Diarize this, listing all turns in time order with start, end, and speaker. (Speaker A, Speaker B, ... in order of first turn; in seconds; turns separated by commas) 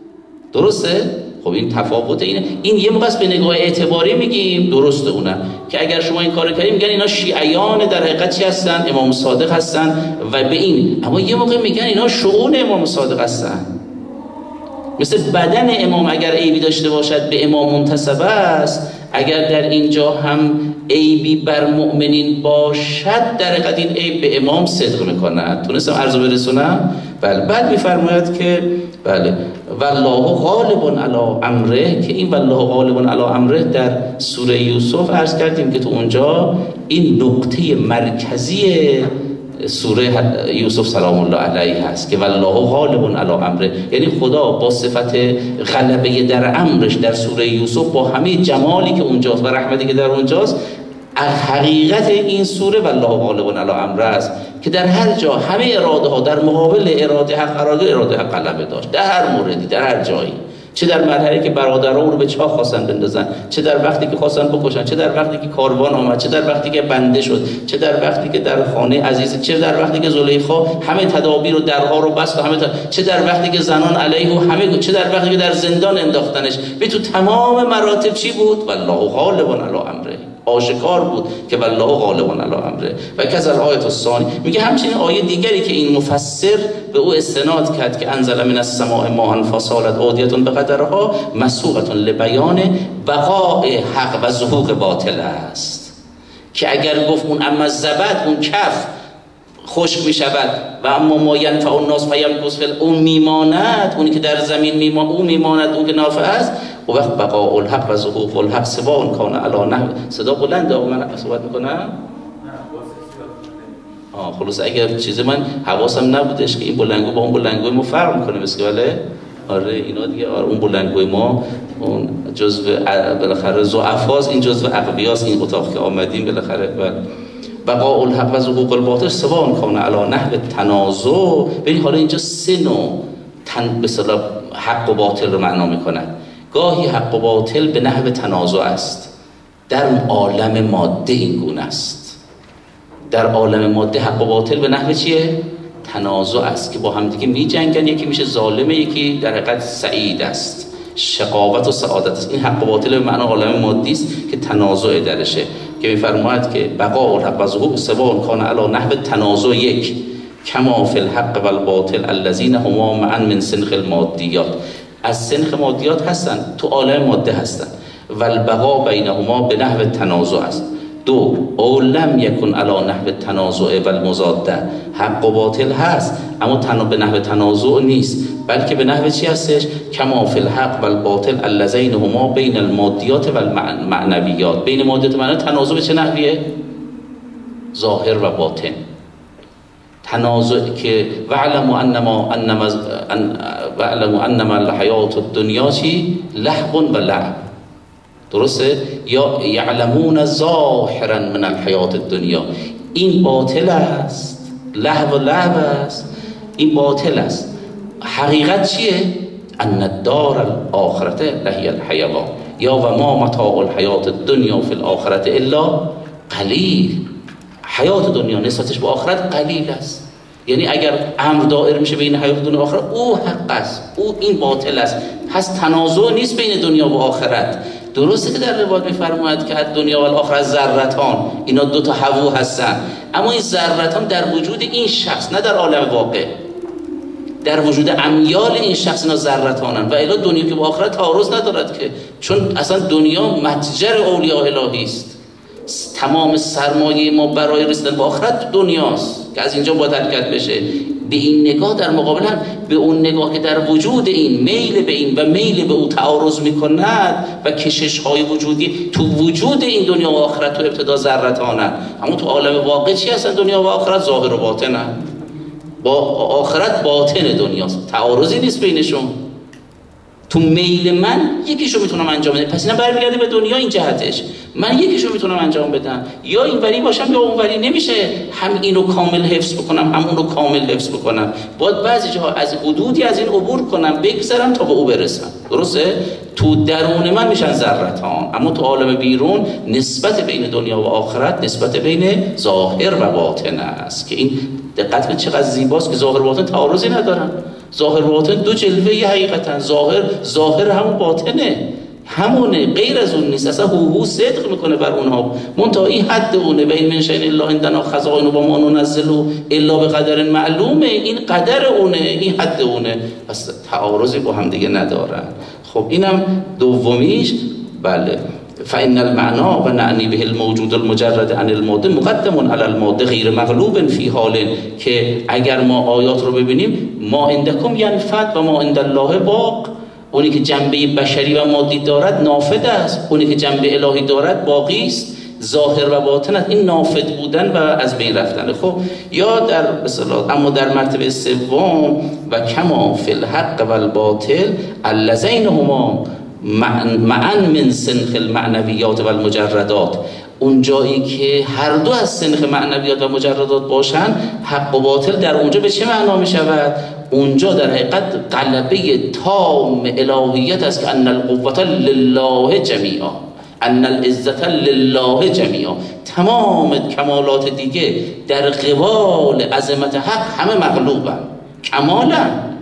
Speaker A: 0.5-13.7, Speaker A: 15.0-50.5, Speaker A: 51.1-95.9, Speaker A: 96.5-98.9, Speaker A: 99.7-111.9, Speaker A: 114.1-127.0, Speaker A: 127.6-139.1, Speaker A: 139.7-142.2, Speaker A: 143.1-186.4, Speaker A: 187.7-188.8, Speaker A: 190.0-197.3, Speaker A: 198.3-206.1, Speaker A: 206.6-207.5, Speaker A: 208.0-215.8, Speaker A: 216.3-217.0, Speaker A: 217.6-236.3, Speaker A: 237.4-245.2, Speaker A: 245.7-264.9, Speaker A: 265.8-269.1, Speaker A: 270.3-372.4